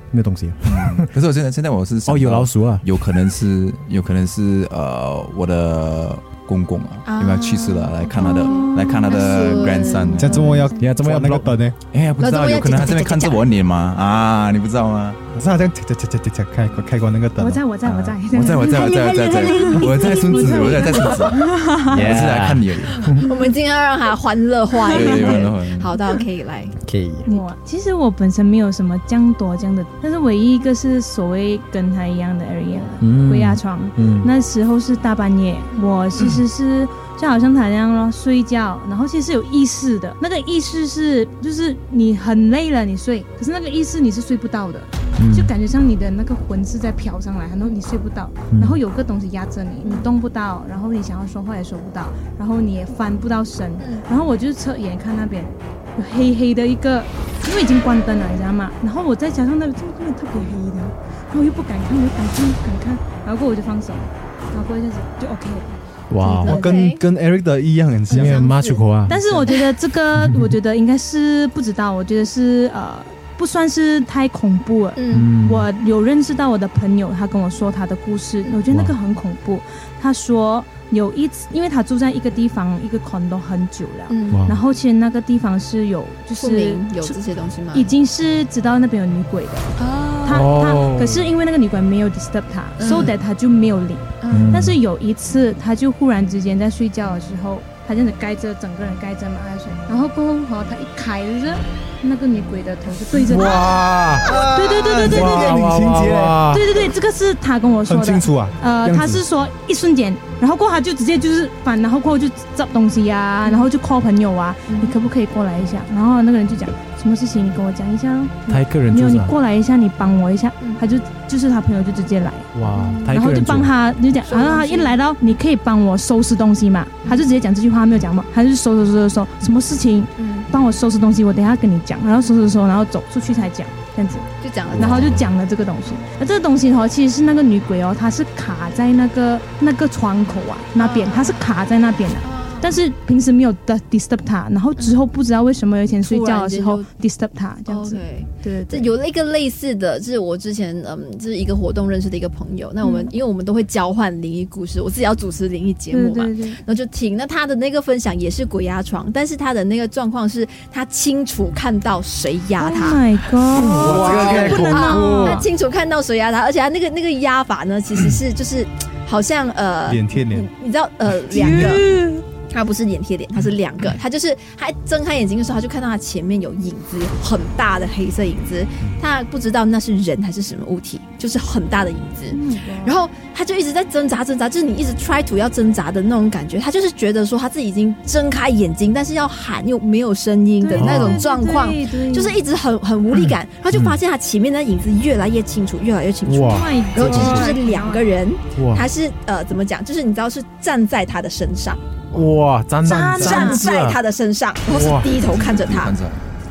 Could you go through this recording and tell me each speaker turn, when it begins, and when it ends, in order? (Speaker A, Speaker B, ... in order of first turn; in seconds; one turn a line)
Speaker A: 0.1-1.1
Speaker B: 0.7-10.5
Speaker A: 2.1-2.9
Speaker C: 7.1-10.6
Speaker D: 8.1-11.0
Speaker E: 10.1-11.8
Speaker A: 10.8-11.6
Speaker B: 11.9-15.2
Speaker C: 12.2-13.4
Speaker E: 15.3-17.6
Speaker D: 17.4-22.0
Speaker B: 17.8-23.0
Speaker C: 18.6-21.3
Speaker A: 21.9-23.2
Speaker C: 23.0-26.8
Speaker B: 24.9-26.0
Speaker D: 24.9-25.4
Speaker A: 26.8-27.3
Speaker D: 27.3-66.8
Speaker A: 33.0-34.3
Speaker A: 45.2-45.5
Speaker A: 48.5-48.8
Speaker C: 53.8-54.0
Speaker A: 66.1-66.7
Speaker C: 66.2-67.0
Speaker E: 66.5-68.4
Speaker C: 68.1-68.9
Speaker A: 68.2-69.2
Speaker D: 69.1-87.2
Speaker C: 75.0-75.3
Speaker A: 75.1-75.7
Speaker A: 78.7-79.0
Speaker C: 84.1-84.4
Speaker A: 84.3-84.6
Speaker C: 86.4-87.9
Speaker D: 87.7-89.7
Speaker C: 89.8-90.4
Speaker D: 90.2-105.6
Speaker A: 90.3-91.3
Speaker C: 92.8-93.2
Speaker C: 94.2-94.5
Speaker A: 94.3-94.8
Speaker A: 103.3-104.3
Speaker E: 104.2-106.5
Speaker A: 105.1-106.6
Speaker D: 106.5-148.9
Speaker E: 107.9-109.2
Speaker C: 114.7-115.0
Speaker A: 118.5-119.3
Speaker A: 122.5-123.7
Speaker C: 124.2-125.0
Speaker C: 130.2-130.5
Speaker C: 134.4-135.1
Speaker B: 134.8-135.2
Speaker C: 140.8-141.4
Speaker C: 142.2-142.7
Speaker C: 146.0-146.9
Speaker C: 147.7-163.0
Speaker D: 152.8-153.1
Speaker D: 155.9-156.6
Speaker D: 162.6-165.5
Speaker A: 163.5-165.3
Speaker C: 163.6-201.8
Speaker E: 169.9-170.5
Speaker D: 171.3-172.2
Speaker D: 182.3-183.0
Speaker D: 190.6-192.4
Speaker A: 190.7-191.2
Speaker A: 193.7-194.0
Speaker A: 196.3-197.2
Speaker D: 196.5-198.2
Speaker A: 198.5-198.9
Speaker A: 202.1-204.0
Speaker C: 202.8-206.0
Speaker E: 202.8-203.6
Speaker A: 204.7-205.1
Speaker B: 205.4-206.2